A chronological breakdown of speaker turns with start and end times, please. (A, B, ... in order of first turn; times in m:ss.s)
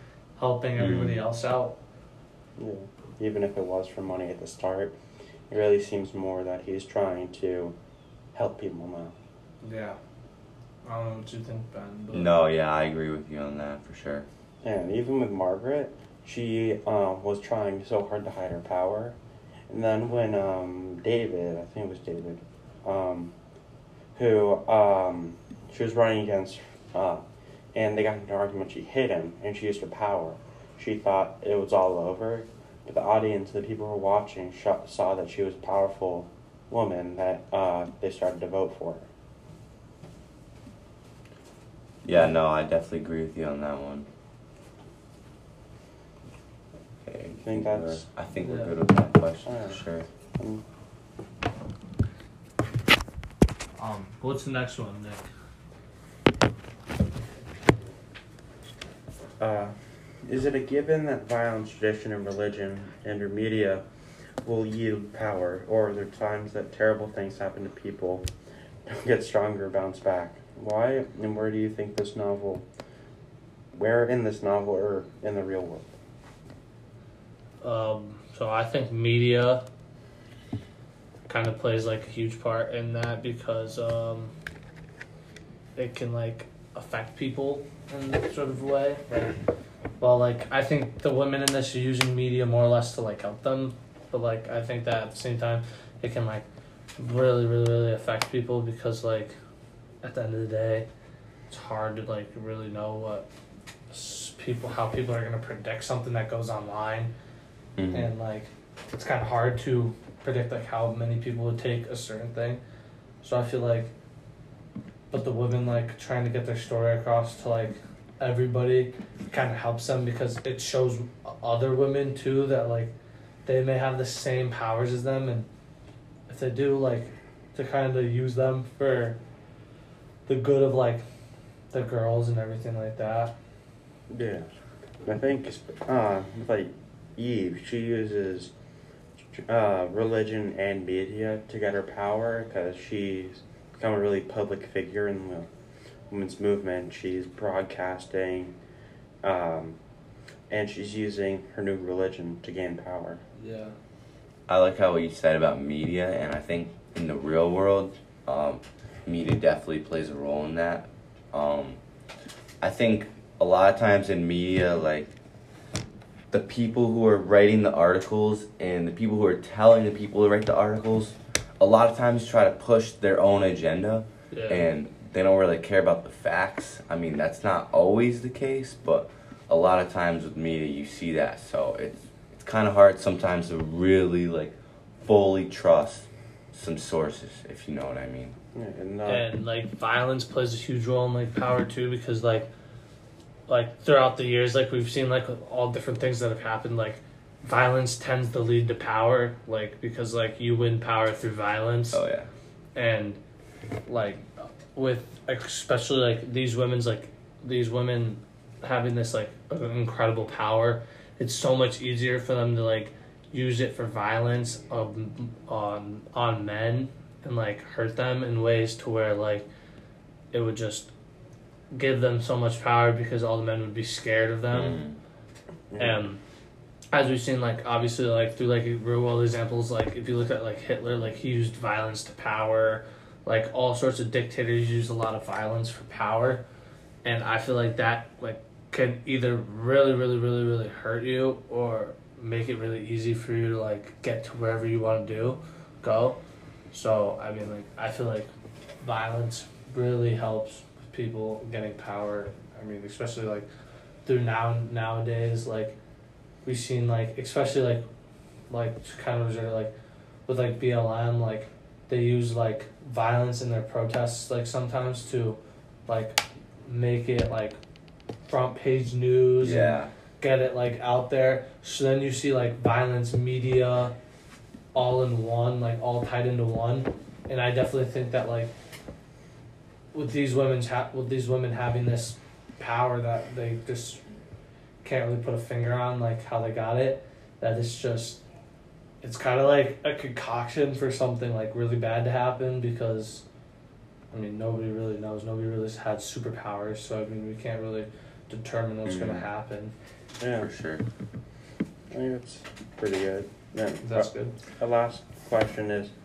0:00.4-0:01.8 A
0:00.8-0:01.2 B
0:02.6-0:05.0 C
0:05.5-0:07.8 C
0:08.3-0:09.2 C
0:09.6-0:10.0 A
0:10.8-0:12.3 A
0:12.1-0:14.2 B
0:14.6-0:19.2 C
0:19.7-0:23.3 C
0:24.2-0:27.2 C
0:27.7-0:39.1 C
0:42.0-0:44.1 B
0:47.0-0:50.1 B
0:47.4-0:48.0 C
0:48.4-0:48.8 A
0:49.4-0:49.8 C
0:50.4-0:50.6 C
0:53.8-0:55.2 A
0:59.4-1:03.8 C
1:04.4-1:08.3 C
1:08.8-1:12.6 C
1:13.7-1:15.9 C
1:17.6-1:19.6 A
1:21.3-1:24.3 A
1:25.8-1:29.4 A
1:30.0-1:36.4 A
1:37.0-1:39.4 A
1:40.0-1:40.9 A
1:41.5-1:43.3 A
1:43.9-1:47.1 A
1:47.8-1:48.1 B
1:47.9-1:52.6 A
1:53.2-1:53.9 A
1:55.1-2:02.9 A
2:03.4-2:05.5 A
2:06.3-2:09.2 A
2:10.2-2:11.0 A
2:11.7-2:13.3 A
2:14.1-2:14.5 C
2:15.0-2:18.5 C
2:19.3-2:25.5 C
2:26.1-2:28.6 C
2:29.2-2:29.8 C
2:30.5-2:33.2 C
2:33.4-2:33.7 A
2:34.5-2:41.8 B
2:42.6-2:45.1 B
2:46.3-3:08.4 B
2:54.3-2:54.7 A
3:08.5-3:09.2 C
3:09.0-3:12.5 A
3:13.5-3:22.0 A
3:21.9-3:22.3 B
3:22.7-3:23.2 A
3:23.8-3:39.5 A
3:40.3-3:40.9 A
3:41.7-3:44.8 A
3:44.5-3:45.0 B
3:45.7-3:46.1 C
3:45.8-3:46.2 A
3:46.9-3:56.4 A
3:57.0-4:06.2 A
4:06.7-4:08.3 A
4:08.8-4:13.5 A
4:14.0-4:15.8 A
4:16.4-4:17.8 A
4:18.5-4:19.7 A
4:20.3-4:27.6 A
4:28.2-4:34.0 A
4:29.4-4:29.9 B
4:34.7-4:38.5 A
4:39.9-4:44.0 A
4:44.8-4:48.2 A
4:49.0-4:53.2 A
4:54.1-4:59.7 A
4:58.8-4:59.2 B
5:00.2-5:00.5 C
5:00.4-5:00.8 B
5:01.9-5:05.9 C
5:03.8-5:04.4 A